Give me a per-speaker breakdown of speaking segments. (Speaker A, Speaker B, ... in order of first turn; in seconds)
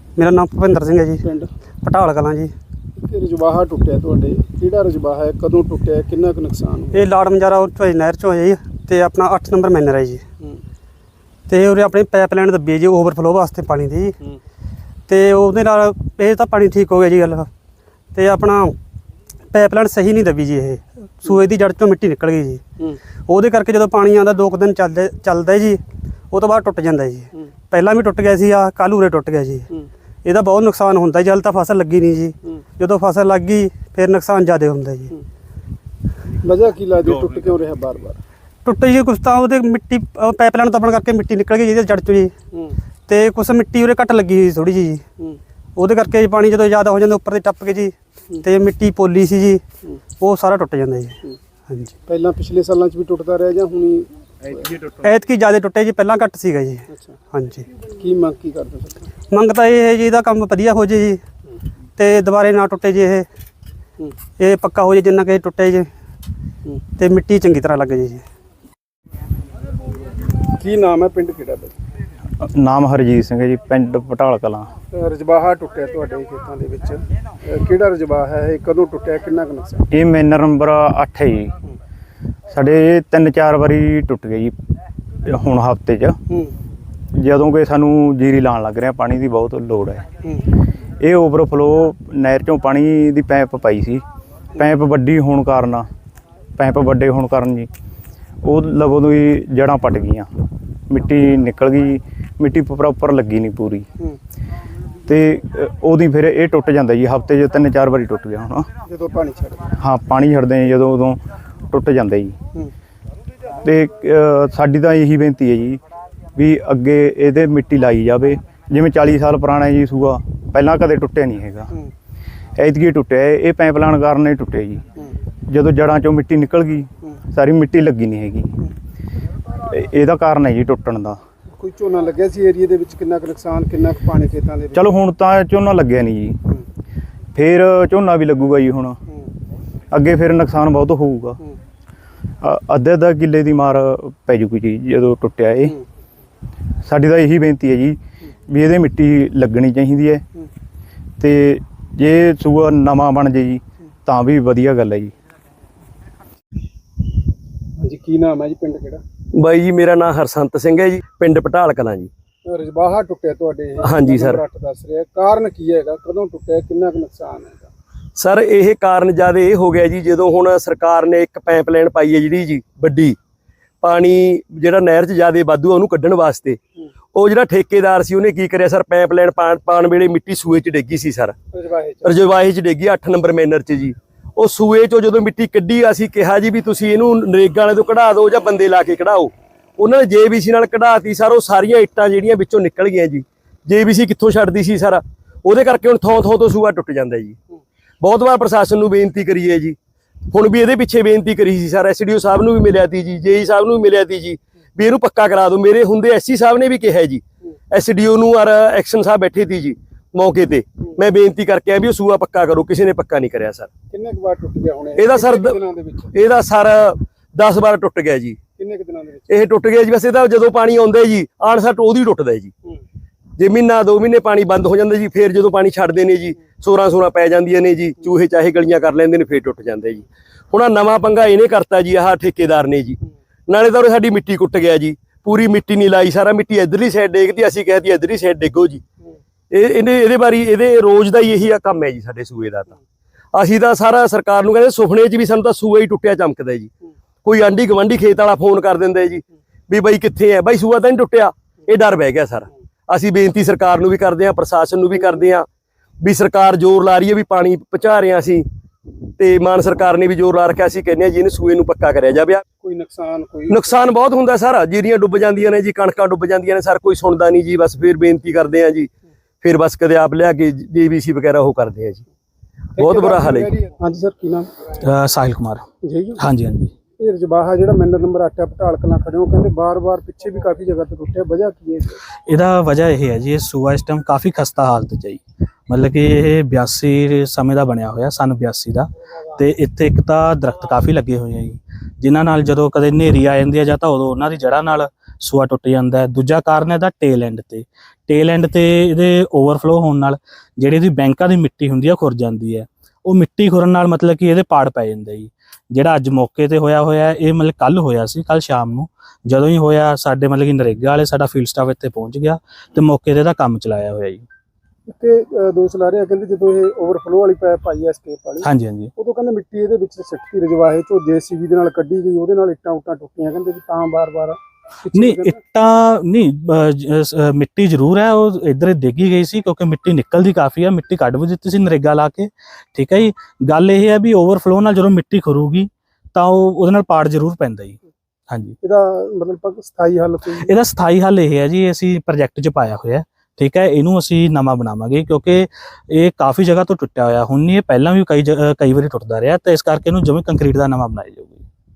Speaker A: 0.2-1.2, 1.8-2.5, 6.9-10.2, 11.5-14.2, 15.1-17.5, 18.1-18.8, 19.5-22.6, 23.3-25.8, 26.3-29.7, 30.2-35.1, 38.6-42.3, 43.1-45.0, 45.8-49.6, 50.2-51.9, 55.0-57.7, 59.3-61.2, 62.0-63.3, 64.4-65.9, 66.9-68.2
Speaker B: 1.2-1.5, 3.0-7.1, 36.4-38.2, 52.0-55.0, 56.9-59.1, 70.5-71.7, 74.9-79.8, 86.3-86.5, 108.8-109.8, 131.5-134.9, 157.8-159.0, 162.4-167.7, 181.5-182.2, 213.9-216.1, 218.5-219.3, 262.6-263.8, 272.8-274.5, 275.8-276.2, 277.0-282.0, 314.9-325.4, 338.6-340.5
Speaker C: 72.4-74.7, 79.9-81.5, 82.5-84.6, 85.2-86.2, 87.1-90.0, 91.0-94.0, 94.6-95.9, 96.6-97.7, 98.4-100.3, 100.9-103.8, 105.1-108.7, 109.8-111.2, 111.7-112.3, 113.6-115.8, 116.3-121.7, 122.6-124.8, 125.5-128.5, 129.7-131.2, 134.7-136.4, 137.3-139.0, 139.9-141.4, 142.4-145.8, 146.8-150.2, 151.2-155.1
Speaker D: 159.3-162.1, 163.8-164.4, 168.2-173.2, 173.8-176.6, 177.1-181.3, 182.0-197.4, 198.0-199.8, 200.3-213.7, 215.0-215.6, 216.1-218.4, 219.3-222.5, 223.4-238.8, 239.5-242.8, 243.3-246.7, 247.2-255.4, 256.0-258.4, 259.2-262.4, 263.5-268.9, 269.4-272.0, 272.8-273.5
Speaker E: 274.8-275.6, 276.2-276.7, 282.3-314.2, 318.4-318.9, 324.9-337.8, 338.3-338.6, 340.4-351.4